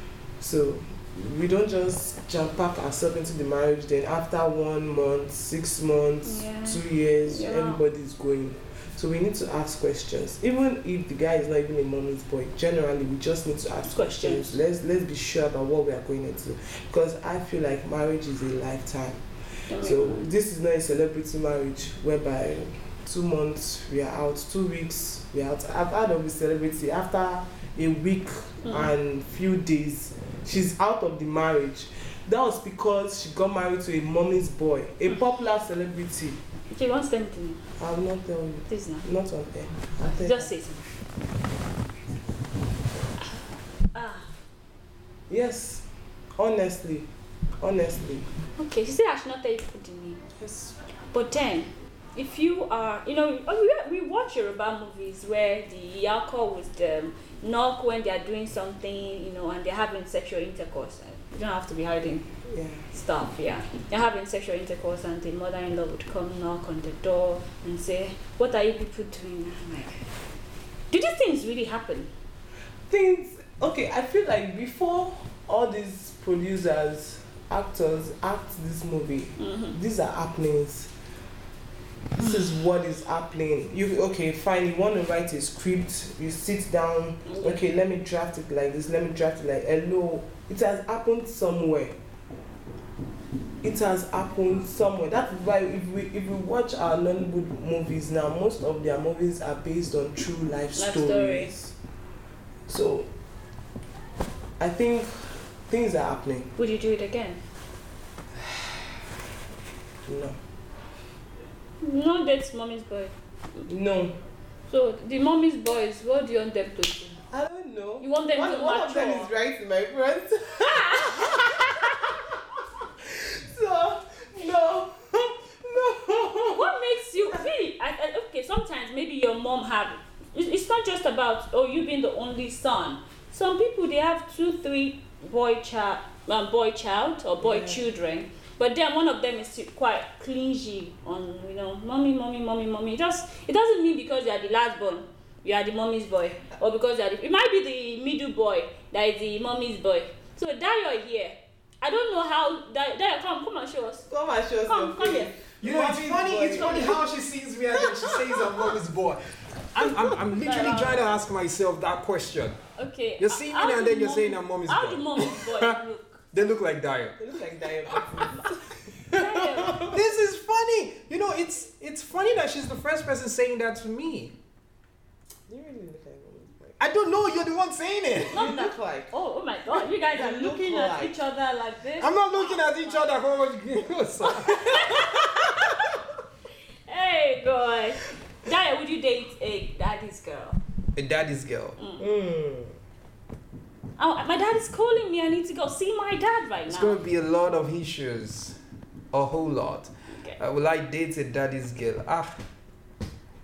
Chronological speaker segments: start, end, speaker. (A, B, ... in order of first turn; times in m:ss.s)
0:00.4-0:36.4 A
0:06.2-0:07.8 B
0:13.8-0:14.6 B
0:19.7-0:20.2 B
0:36.7-0:37.6 B
0:37.8-0:40.5 A
0:38.7-0:39.1 B
0:40.2-0:40.8 B
0:43.9-0:44.3 B
0:45.3-0:47.1 A
0:47.6-0:48.3 A
0:48.6-0:50.2 B
0:50.3-0:50.8 A
0:51.1-1:02.3 B
1:02.5-1:02.9 A
1:02.9-1:10.0 B
1:10.9-1:12.1 B
1:12.9-1:20.9 A
1:19.4-1:19.8 B
1:22.2-1:32.0 A
1:27.2-1:27.6 B
1:33.6-1:41.8 A
1:40.7-1:41.5 B
1:42.7-1:43.1 A
1:44.6-1:46.5 A
1:46.6-1:47.4 B
1:50.0-1:50.4 A
1:51.8-1:53.6 B
1:53.7-1:54.2 A
1:54.7-1:57.2 B
1:57.3-2:06.8 A
1:58.0-1:59.3 B
2:00.6-2:01.7 B
2:06.4-2:34.1 B
2:17.4-2:17.8 A
2:34.0-2:37.0 A
2:34.6-2:35.3 B
2:35.6-2:42.6 C
2:36.5-2:37.1 B
2:37.8-2:38.6 A
2:39.8-2:40.2 A
2:40.4-2:41.2 B
2:42.8-2:46.3 B
2:43.2-2:45.8 C
2:46.3-2:47.2 C
2:47.2-2:50.0 A
2:47.9-2:48.2 C
2:49.1-2:49.8 B
2:49.9-2:54.3 C
2:55.5-2:56.8 A
2:56.8-2:58.5 C
2:58.3-2:59.1 A
2:58.3-3:03.2 B
2:59.8-3:01.2 A
3:02.0-3:05.0 C
3:04.4-3:05.9 B
3:06.9-3:10.6 B
3:11.0-3:11.8 C
3:11.8-3:12.0 B
3:12.0-3:12.7 A
3:14.0-3:17.0 B
3:16.7-3:18.6 C
3:19.1-3:22.4 C